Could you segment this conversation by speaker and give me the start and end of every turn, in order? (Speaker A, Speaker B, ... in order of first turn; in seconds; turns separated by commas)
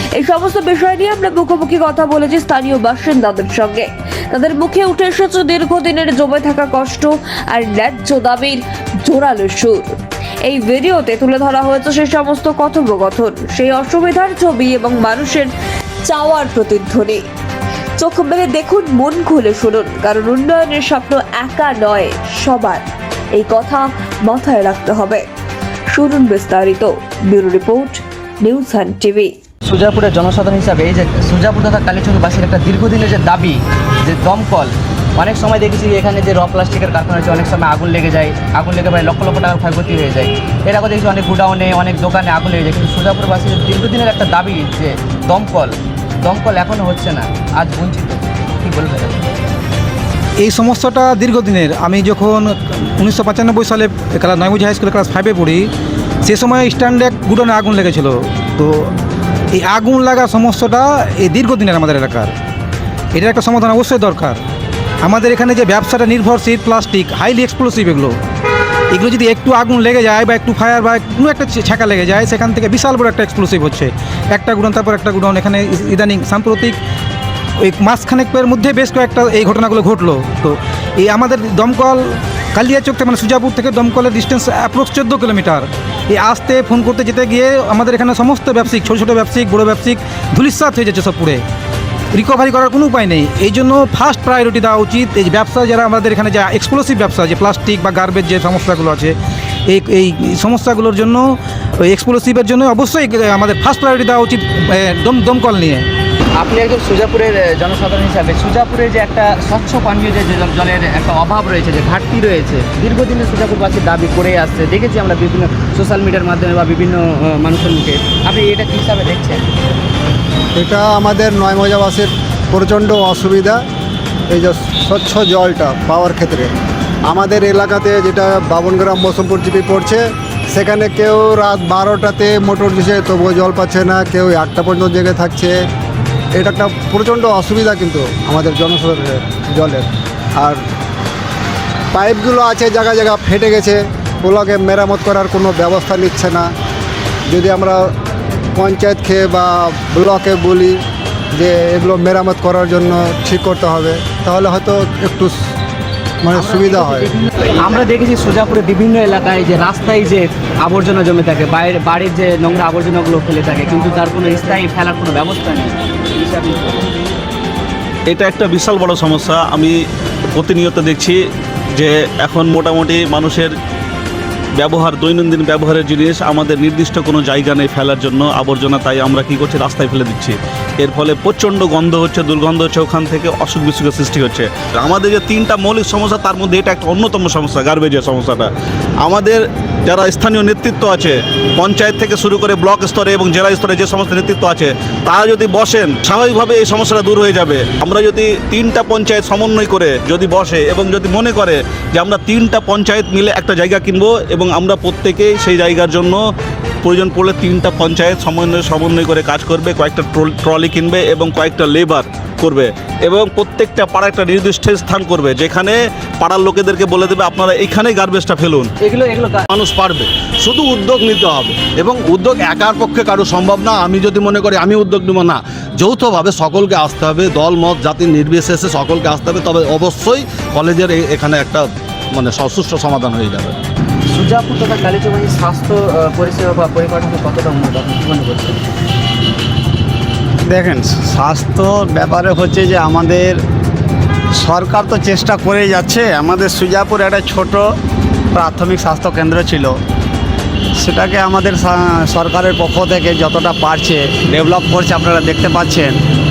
Speaker A: 0.1-9.9, Speaker A: 10.4-15.5, Speaker A: 16.0-17.2, Speaker A: 18.0-22.8, Speaker A: 23.3-25.2, Speaker A: 25.9-29.3, Speaker B: 29.6-49.2, Speaker C: 50.4-55.7, Speaker C: 56.2-58.9, Speaker C: 59.5-62.3, Speaker C: 63.1-64.4, Speaker C: 65.0-68.2, Speaker C: 68.9-76.8, Speaker C: 77.6-91.4, Speaker C: 92.1-99.2, Speaker C: 99.7-105.9, Speaker B: 106.4-119.5, Speaker D: 120.6-123.6, Speaker D: 124.3-126.5, Speaker D: 127.1-135.6, Speaker D: 136.4-139.9, Speaker D: 141.9-146.5, Speaker D: 147.3-147.9, Speaker D: 148.6-150.8, Speaker D: 151.3-155.4, Speaker D: 156.2-157.1, Speaker B: 156.3-166.9, Speaker E: 168.1-169.8, Speaker E: 170.3-171.2, Speaker E: 171.8-173.5, Speaker E: 174.6-188.5, Speaker E: 189.0-206.2, Speaker E: 206.8-218.7, Speaker B: 218.8-219.5, Speaker F: 219.5-233.6, Speaker B: 234.1-238.6, Speaker G: 240.5-243.4, Speaker G: 244.4-247.7, Speaker G: 248.3-249.7, Speaker G: 250.8-256.0